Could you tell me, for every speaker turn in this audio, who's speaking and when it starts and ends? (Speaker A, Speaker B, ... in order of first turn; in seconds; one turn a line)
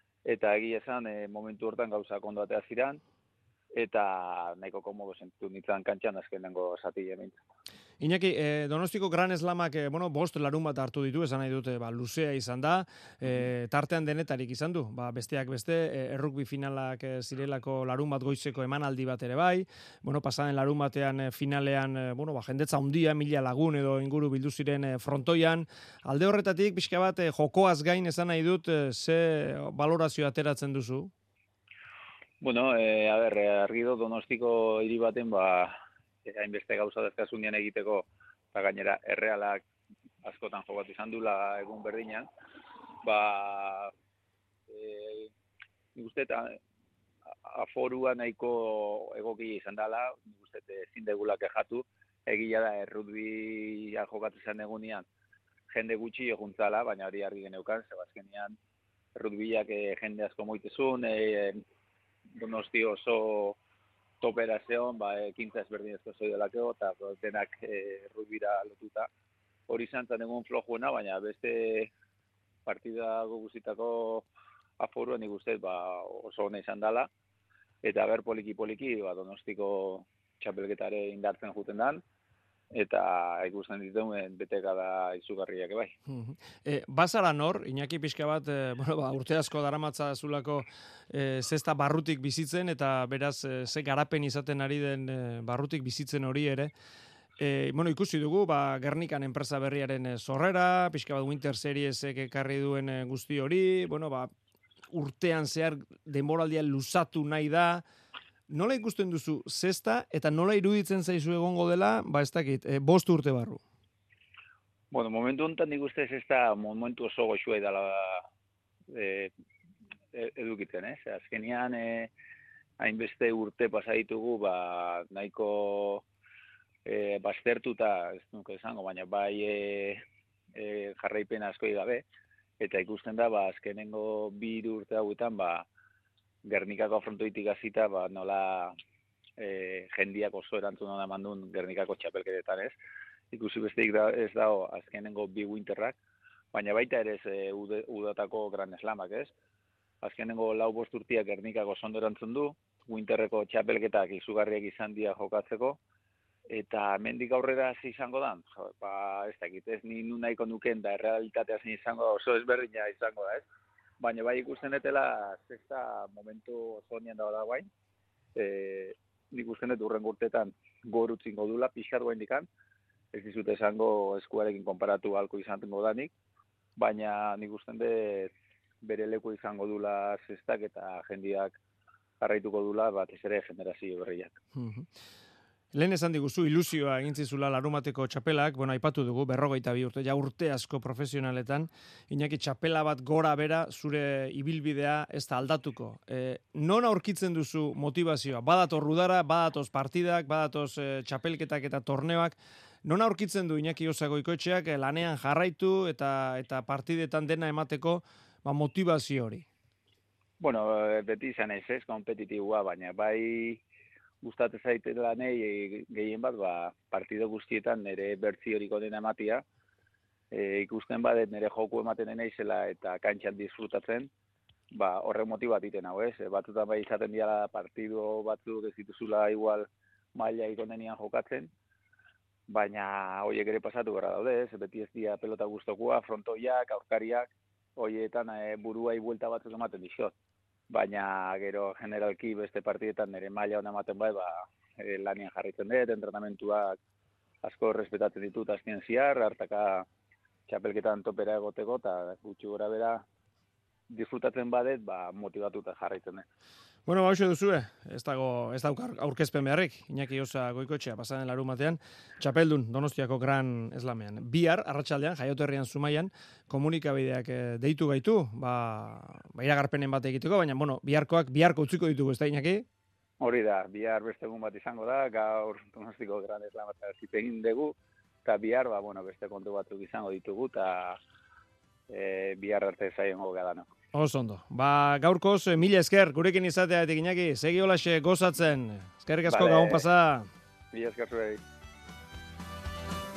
Speaker A: 0.2-3.0
Speaker A: 3.7-7.4
Speaker B: 8.0-31.1
Speaker A: 32.4-39.6
Speaker A: 40.2-42.3
Speaker A: 43.0-43.9
Speaker A: 44.7-45.3
Speaker A: 45.9-46.6
Speaker A: 47.4-55.1
Speaker A: 55.7-58.6
Speaker A: 59.1-61.6
Speaker A: 62.3-63.6
Speaker A: 64.2-69.1
Speaker A: 69.7-71.9
Speaker A: 72.7-74.3
Speaker A: 74.8-77.1
Speaker A: 77.8-82.0
Speaker A: 82.7-85.9
Speaker B: 86.1-96.7
Speaker B: 97.4-104.3
Speaker B: 104.9-107.8
Speaker B: 108.5-113.6
Speaker A: 114.9-118.2
Speaker A: 118.9-119.3
Speaker A: 120.1-122.1
Speaker A: 122.8-126.0
Speaker A: 126.8-130.0
Speaker A: 130.6-132.0
Speaker A: 132.6-135.7
Speaker A: 136.4-138.7
Speaker A: 139.4-142.8
Speaker A: 143.3-146.0
Speaker A: 146.5-149.3
Speaker A: 150.0-155.8
Speaker A: 156.5-163.5
Speaker A: 164.0-167.7
Speaker A: 168.3-172.5
Speaker A: 173.1-176.1
Speaker A: 176.8-181.6
Speaker A: 182.2-184.4
Speaker B: 184.6-184.9
Speaker B: 185.7-209.4
Speaker A: 210.4-213.6
Speaker A: 214.2-219.4
Speaker A: 220.3-224.1
Speaker A: 224.7-231.5
Speaker A: 232.5-240.1
Speaker A: 240.7-246.8
Speaker A: 247.4-249.9
Speaker A: 250.5-253.0
Speaker A: 253.9-256.2
Speaker B: 256.9-272.6
Speaker A: 273.2-281.0
Speaker A: 281.9-283.7
Speaker B: 283.9-290.3
Speaker A: 289.3-289.9
Speaker A: 290.7-291.4